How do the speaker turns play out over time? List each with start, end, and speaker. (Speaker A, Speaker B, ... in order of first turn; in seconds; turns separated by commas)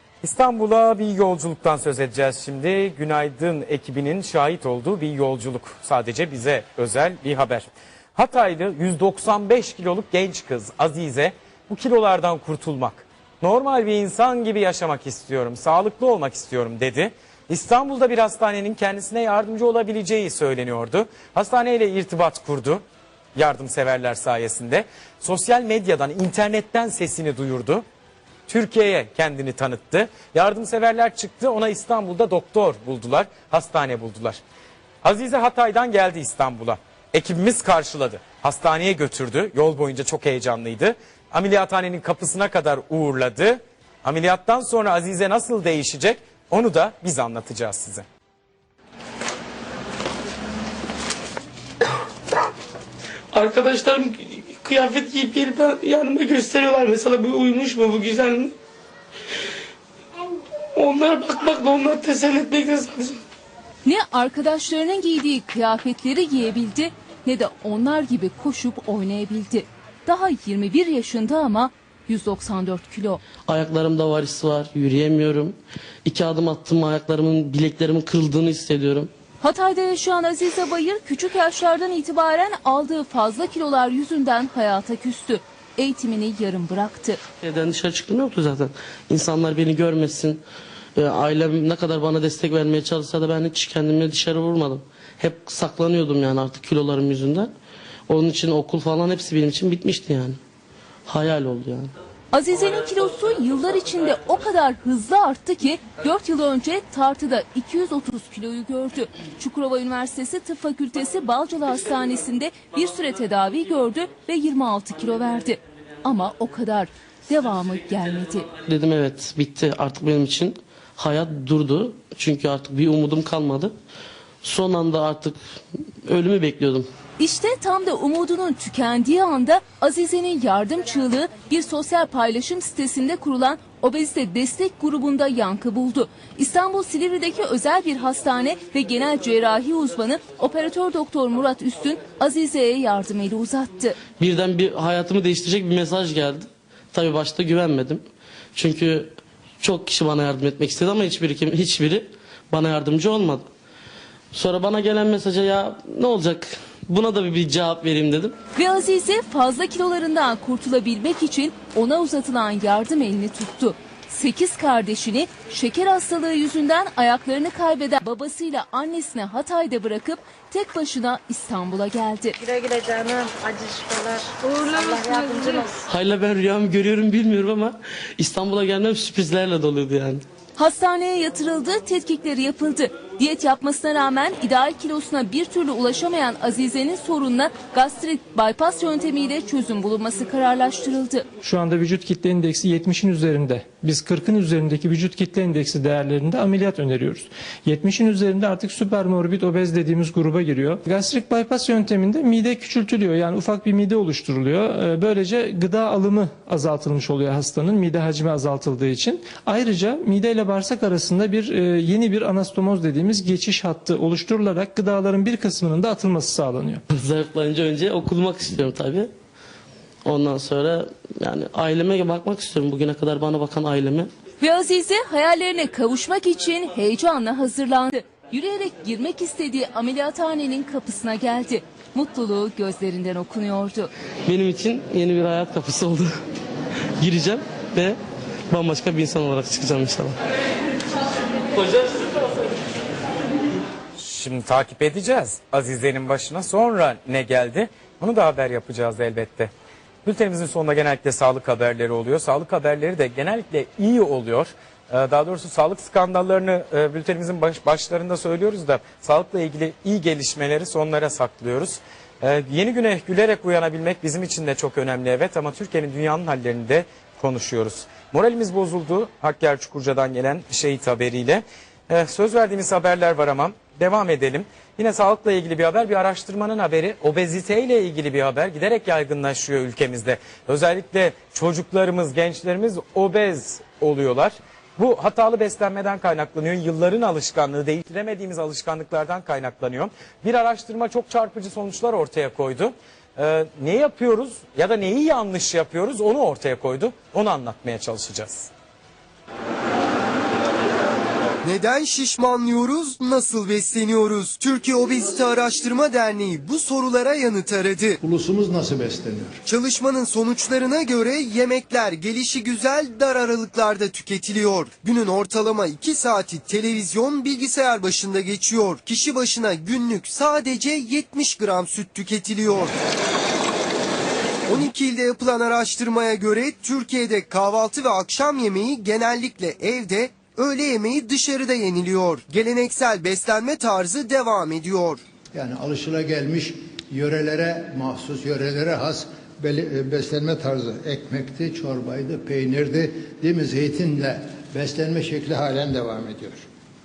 Speaker A: 0.2-22.8, Speaker A: 23.4-27.8, Speaker A: 28.5-34.4, Speaker A: 35.0-48.0, Speaker B: 53.3-58.5, Speaker B: 60.8-63.2, Speaker C: 63.8-73.2, Speaker B: 73.5-79.1, Speaker C: 79.4-87.2, Speaker B: 87.4-90.4, Speaker B: 91.0-97.5, Speaker B: 98.1-100.4, Speaker B: 101.1-101.9, Speaker C: 102.3-118.5, Speaker B: 118.5-123.7, Speaker B: 124.4-125.4, Speaker B: 126.1-126.9, Speaker C: 127.2-144.0, Speaker B: 144.1-148.0, Speaker B: 148.6-153.4, Speaker B: 154.3-158.4, Speaker C: 158.6-172.4, Speaker D: 172.4-175.9, Speaker B: 175.9-180.2, Speaker C: 180.6-191.3, Speaker E: 191.4-216.8, Speaker B: 216.9-219.1, Speaker B: 220.1-224.1, Speaker C: 224.4-233.9, Speaker B: 234.3-236.1, Speaker B: 237.0-238.0, Speaker B: 238.5-240.2, Speaker B: 241.6-242.1, Speaker A: 244.0-249.5, Speaker A: 250.1-298.5, Speaker F: 301.4-308.0, Speaker G: 308.0-309.4, Speaker F: 309.5-322.8, Speaker F: 324.5-335.0, Speaker G: 335.3-346.4